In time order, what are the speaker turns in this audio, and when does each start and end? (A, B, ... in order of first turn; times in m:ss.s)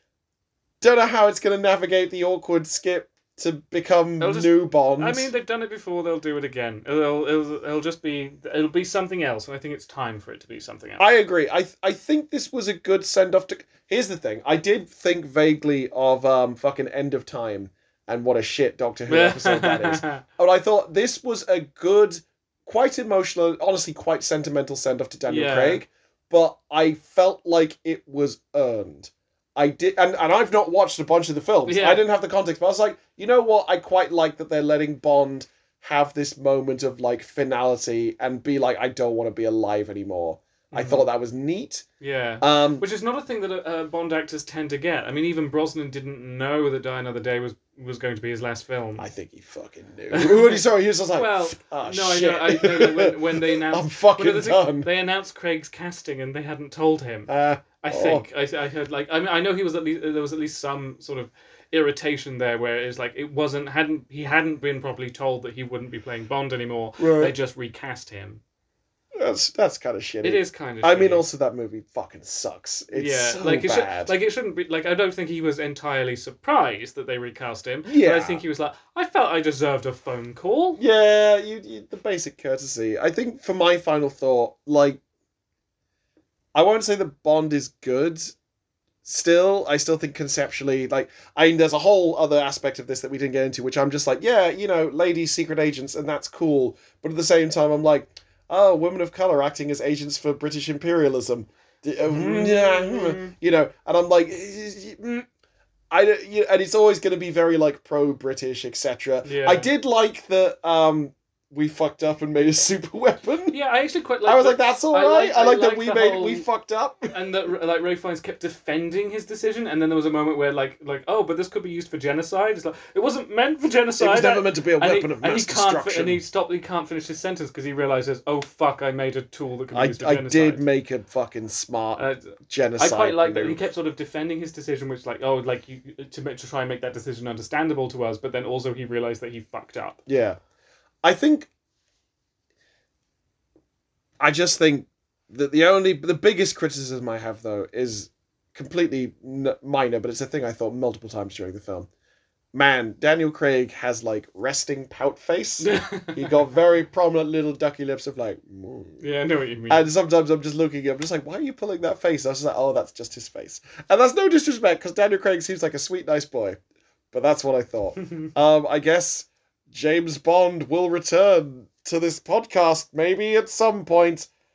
0:00.8-0:05.3 A
0:04.2-0:11.0 B
0:11.0-0:41.8 A
0:19.1-0:20.2 B
0:25.2-0:25.8 B
0:31.7-0:32.0 B
0:40.7-0:41.1 B
0:42.0-0:49.1 B
0:42.4-0:42.8 A
0:49.0-0:54.9 A
0:50.1-0:50.6 B
0:51.1-0:57.3 B
0:57.3-0:58.2 A
0:57.8-1:08.4 B
1:07.0-1:07.3 A
1:09.2-1:14.1 A
1:10.2-1:11.2 B
1:12.9-1:20.8 B
1:17.8-1:18.4 A
1:20.8-1:25.0 A
1:26.5-1:28.3 A
1:29.0-1:45.3 A
1:42.0-1:43.3 B
1:45.9-1:53.6 A
1:49.2-1:49.7 B
1:53.5-1:56.4 B
1:54.2-1:57.1 A
1:57.1-2:10.6 B
2:04.0-2:06.2 A
2:09.7-2:13.6 A
2:12.8-2:20.0 B
2:20.1-2:20.4 A
2:21.0-2:21.5 A
2:24.2-2:31.9 A
2:32.5-2:39.0 A
2:35.6-2:36.3 B
2:39.0-2:39.9 B
2:39.7-2:46.6 A
2:47.1-2:54.3 A